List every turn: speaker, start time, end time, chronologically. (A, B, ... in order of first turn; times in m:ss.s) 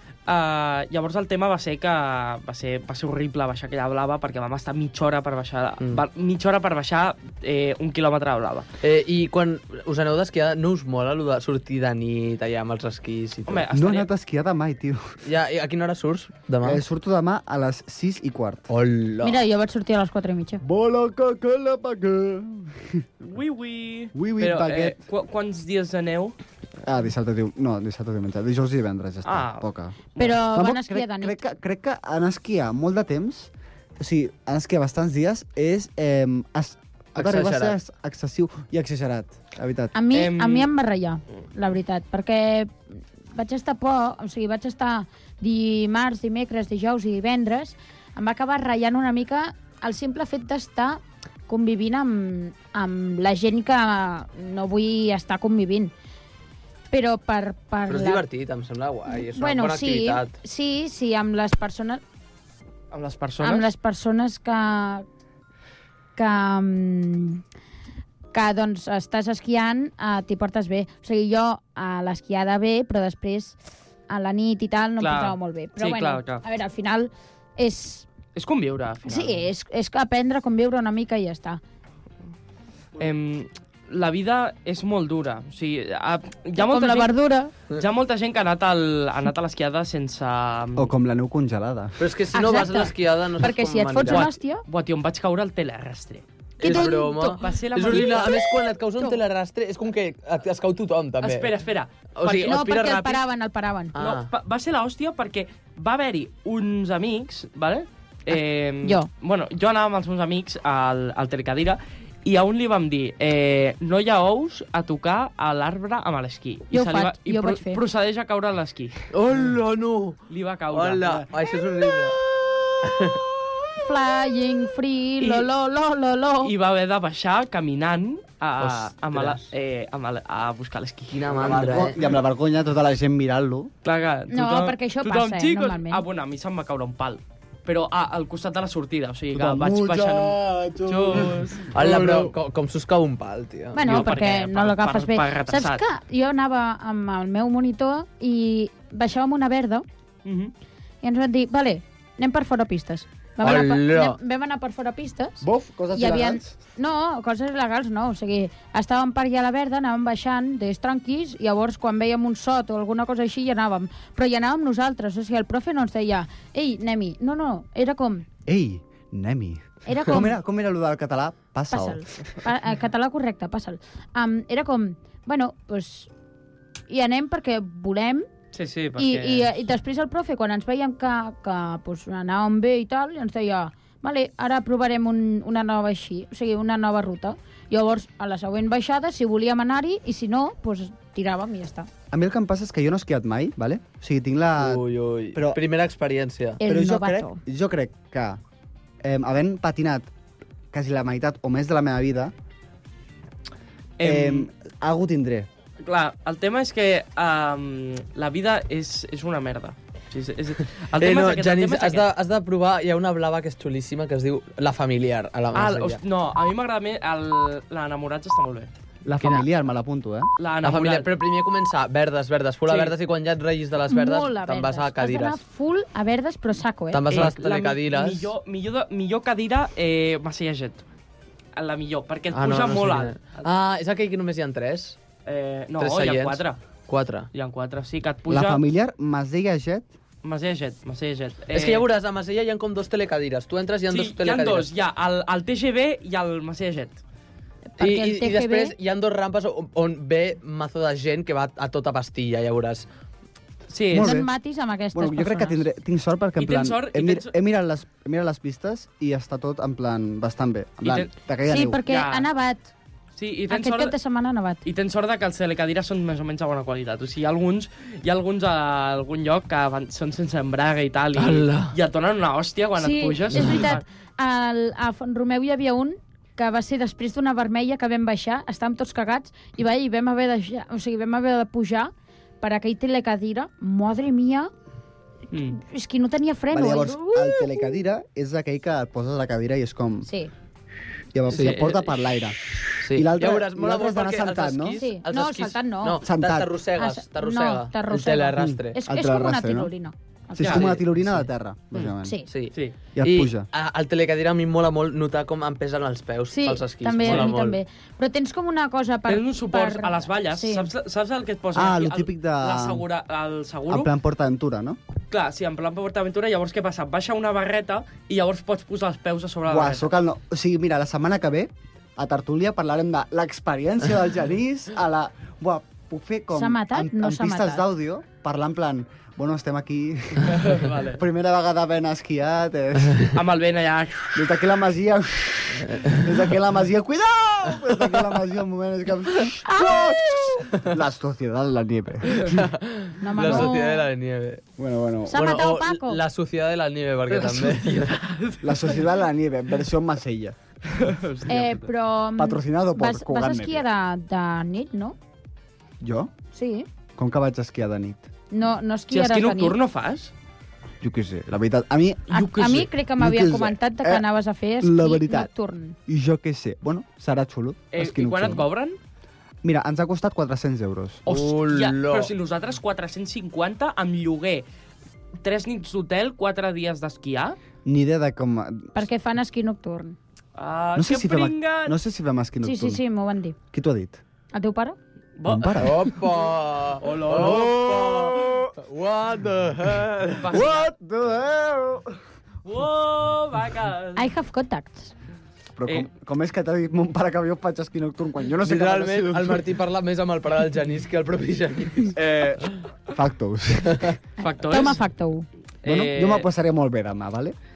0:00.3-0:08.7 A
0:08.8-0:13.6 B
0:13.5-0:14.1 A
0:13.7-0:15.2 C
0:15.2-0:16.8 B
0:16.6-0:18.7 C
0:18.7-0:19.4 B
0:19.2-0:20.6 D
0:20.6-0:23.0 C
0:23.3-0:26.3 A
0:24.1-0:25.0 C
0:26.8-0:39.9 C
0:29.2-0:29.7 A
0:30.2-0:31.4 D
0:37.2-0:37.8 B
0:39.9-0:55.9 D
0:40.1-0:40.7 A
0:56.9-0:58.2 D
0:57.9-1:00.3 B
0:59.1-1:02.0 D
1:02.9-1:03.7 A
1:03.4-1:05.0 D
1:06.2-1:07.4 D
1:08.3-1:13.6 D
1:14.1-1:18.1 D
1:15.0-1:16.4 A
1:18.3-1:19.5 A
1:19.1-1:21.6 D
1:23.0-1:27.1 A
1:26.6-1:27.5 D
1:27.7-1:30.9 A
1:30.8-1:32.0 C
1:32.0-1:34.3 B
1:32.3-1:34.6 D
1:34.1-1:38.4 A
1:36.6-1:41.5 B
1:36.6-1:38.4 D
1:41.2-1:43.2 A
1:42.2-1:42.7 B
1:42.4-1:43.9 D
1:43.9-1:44.3 B
1:44.0-1:59.0 A
1:48.3-1:49.1 D
1:56.7-1:57.8 D
1:59.1-2:00.2 B
2:00.3-2:01.2 A
2:00.7-2:02.2 B
2:02.8-2:03.2 B
2:03.8-2:06.5 D
2:05.2-2:05.5 A
2:06.4-2:11.9 A
2:08.6-2:09.5 B
2:11.1-2:12.0 B
2:11.4-2:13.7 C
2:13.8-2:21.7 A
2:14.3-2:16.0 D
2:19.3-2:22.3 C
2:21.7-2:23.8 B
2:23.7-2:29.8 D
2:23.8-2:25.8 A
2:30.2-2:30.5 A
2:31.0-2:48.2 D
2:33.4-2:34.2 B
2:35.4-2:36.5 C
2:48.4-2:52.2 C
2:49.8-2:50.4 D
2:51.7-2:56.1 D
2:56.9-2:58.3 D
2:58.5-2:59.5 A
2:59.0-3:11.9 D
3:12.1-3:15.6 C
3:14.6-3:16.6 B
3:16.6-3:17.4 D
3:16.6-3:18.4 C
3:19.0-3:20.1 C
3:20.7-3:22.3 C
3:24.0-3:24.5 A
3:24.0-3:25.5 C
3:25.8-3:32.1 A
3:31.0-3:36.0 B
3:35.5-3:38.7 A
3:39.0-3:40.3 C
3:39.2-3:39.4 B
3:40.4-3:41.1 A
3:40.6-3:45.4 B
3:42.6-3:42.9 A
3:43.9-3:47.2 D
3:46.9-3:48.3 B
3:47.1-3:50.8 A
3:51.6-3:53.5 A
3:52.3-3:55.0 B
3:55.2-3:56.6 A
3:55.8-3:57.3 B
3:57.3-3:58.6 A
3:58.3-3:59.9 C
4:00.2-4:01.8 A
4:01.5-4:04.7 B
4:03.9-4:07.0 A
4:07.8-4:08.7 D
4:07.8-4:12.9 B
4:13.7-4:14.1 A
4:13.9-4:14.3 C
4:13.9-4:15.6 D
4:14.9-4:21.8 C
4:16.4-4:17.3 A
4:20.8-4:21.1 A
4:21.5-4:22.7 D
4:21.9-4:22.3 A
4:23.2-4:23.9 A
4:23.5-4:24.6 D
4:24.6-4:33.8 A
4:31.2-4:31.7 B
4:32.8-4:44.5 D
4:33.3-4:33.7 B
4:45.3-4:45.6 A
4:45.5-4:47.8 D
4:46.5-4:50.1 C
4:50.0-4:50.3 D
4:51.1-4:54.8 C
4:51.3-4:52.0 A
4:52.8-4:58.8 B
4:54.8-4:56.0 D
4:56.0-4:56.6 C
4:56.8-5:00.6 D
4:58.4-4:59.7 C
5:00.3-5:02.2 C
5:00.4-5:00.6 A
5:00.4-5:01.3 B
5:02.0-5:02.3 D
5:02.3-5:07.6 B
5:03.0-5:03.5 C
5:06.3-5:10.7 D
5:09.1-5:13.9 A
5:11.5-5:12.8 C
5:13.7-5:14.8 C
5:15.1-5:19.9 A
5:19.5-5:33.1 C
5:26.3-5:27.6 D
5:30.3-5:31.0 A
5:33.1-5:34.2 A
5:34.1-5:42.4 C
5:35.7-5:36.0 B
5:39.4-5:40.4 D
5:42.2-5:44.4 B
5:43.0-5:43.9 D
5:43.2-5:43.5 C
5:44.6-5:45.4 C
5:45.1-5:46.0 D
5:45.1-5:48.0 B
5:47.1-5:48.9 A
5:48.4-5:50.4 C
5:50.7-5:51.7 A
5:51.3-5:55.0 D
5:52.2-5:53.6 C
5:55.8-5:56.1 C
5:56.3-5:56.7 D
5:57.0-5:58.1 C
5:58.3-5:59.6 D
5:58.9-6:00.1 A
6:00.8-6:04.0 C
6:02.1-6:05.8 D
6:02.1-6:02.7 A
6:04.6-6:05.3 C
6:05.9-6:08.4 C
6:07.7-6:08.8 A
6:09.4-6:11.0 C
6:11.0-6:14.4 A
6:11.1-6:12.1 B
6:15.2-6:17.4 A
6:17.6-6:18.7 C
6:18.7-6:20.0 D
6:20.4-6:21.8 A
6:20.8-6:22.8 C
6:22.4-6:23.4 D
6:23.5-6:24.0 C
6:24.3-6:24.8 D
6:25.2-6:25.9 A
6:25.2-6:25.8 C
6:25.6-6:30.4 B
6:26.8-6:27.5 A
6:27.1-6:28.5 C
6:30.2-6:30.7 A
6:30.3-6:32.0 C
6:32.4-6:34.1 A
6:34.0-6:34.9 D
6:35.6-6:39.5 C
6:38.4-6:41.9 B
6:41.9-6:44.0 C
6:43.7-6:43.9 B
6:44.2-6:45.2 D
6:44.2-6:44.8 A
6:45.6-6:46.3 A
6:45.6-6:47.4 C